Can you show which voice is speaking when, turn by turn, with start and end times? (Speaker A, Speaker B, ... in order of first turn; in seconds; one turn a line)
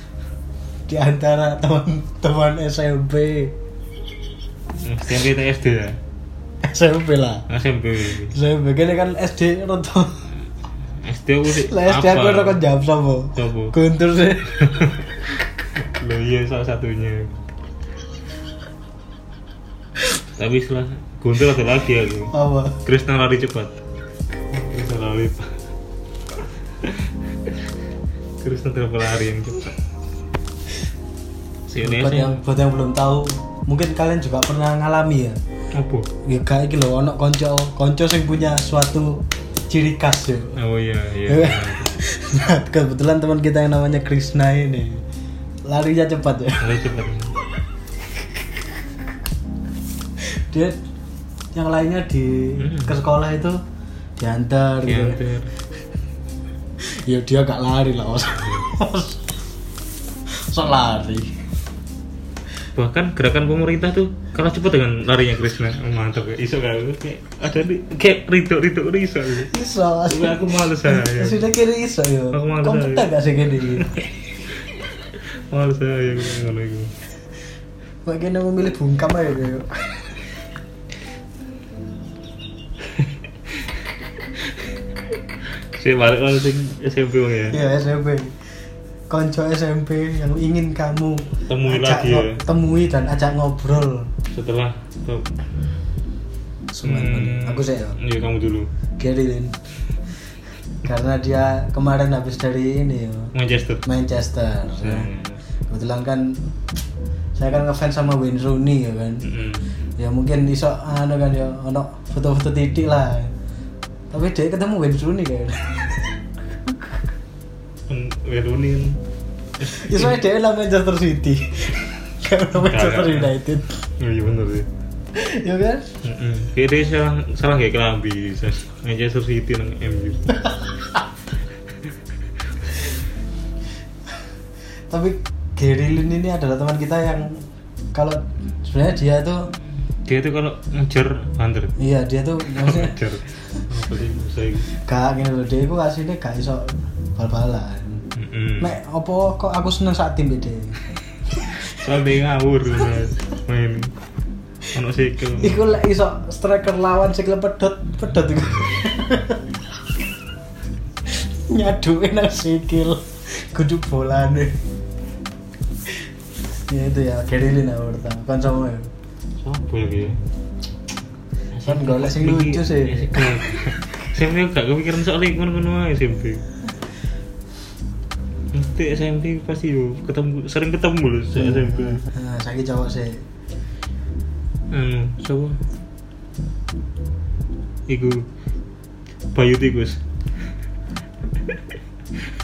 Speaker A: 0.9-3.5
Speaker B: 4.8-6.0
Speaker A: 6.6-7.5
Speaker B: 7.5-8.3
Speaker A: 8.2-10.3
Speaker B: 11.0-12.6
Speaker A: 11.5-15.0
Speaker B: 13.3-13.7
Speaker B: 14.6-15.1
Speaker B: 15.8-17.4
Speaker B: 20.4-23.8
Speaker A: 22.3-22.8
Speaker B: 24.5-25.6
Speaker B: 26.8-27.5
Speaker B: 28.4-29.8
Speaker B: 31.7-32.4
Speaker A: 31.8-35.4
Speaker B: 35.7-36.1
Speaker A: 36.2-40.5
Speaker B: 40.5-41.9
Speaker A: 41.3-45.0
Speaker A: 45.6-46.7
Speaker B: 46.6-47.4
Speaker A: 50.2-50.8
Speaker A: 51.5-53.6
Speaker B: 52.6-53.0
Speaker A: 54.2-55.2
Speaker B: 54.9-55.5
Speaker A: 56.8-59.3
Speaker A: 60.3-61.4
Speaker B: 62.7-69.5
Speaker A: 69.4-74.0
Speaker B: 70.1-71.5
Speaker B: 72.3-73.1
Speaker B: 73.8-74.0
Speaker B: 75.0-76.9
Speaker A: 78.0-80.2
Speaker B: 84.4-84.7
Speaker B: 85.4-87.6
Speaker A: 87.5-88.3
Speaker A: 89.1-94.1
Speaker B: 91.5-92.4
Speaker B: 94.3-95.3
Speaker A: 96.7-98.0
Speaker B: 96.8-98.7
Speaker A: 99.0-99.5
Speaker A: 100.8-103.3
Speaker B: 103.3-103.8
Speaker A: 103.8-105.1
Speaker B: 104.8-105.4
Speaker A: 105.7-106.5
Speaker A: 107.3-109.3
Speaker B: 109.2-109.6
Speaker A: 110.0-113.3
Speaker A: 114.1-116.0
Speaker B: 117.9-119.0
Speaker B: 119.6-120.1
Speaker A: 119.6-123.9
Speaker B: 122.5-123.3
Speaker B: 124.0-124.7
Speaker A: 125.1-125.9
Speaker B: 126.0-130.3
Speaker A: 134.9-137.4
Speaker A: 137.9-139.5
Speaker B: 140.0-141.8
Speaker A: 141.8-143.0
Speaker B: 142.4-144.7
Speaker A: 144.7-148.0
Speaker B: 148.1-148.7
Speaker A: 148.6-150.8
Speaker A: 151.4-151.7
Speaker B: 151.5-153.9
Speaker B: 154.7-155.6
Speaker A: 155.4-159.5
Speaker A: 161.1-164.6
Speaker A: 166.7-168.9
Speaker B: 169.4-170.2
Speaker B: 171.5-176.4
Speaker A: 171.6-173.6
Speaker B: 178.5-182.0
Speaker A: 181.4-183.2
Speaker B: 184.7-185.6
Speaker B: 187.9-188.3
Speaker B: 189.3-190.0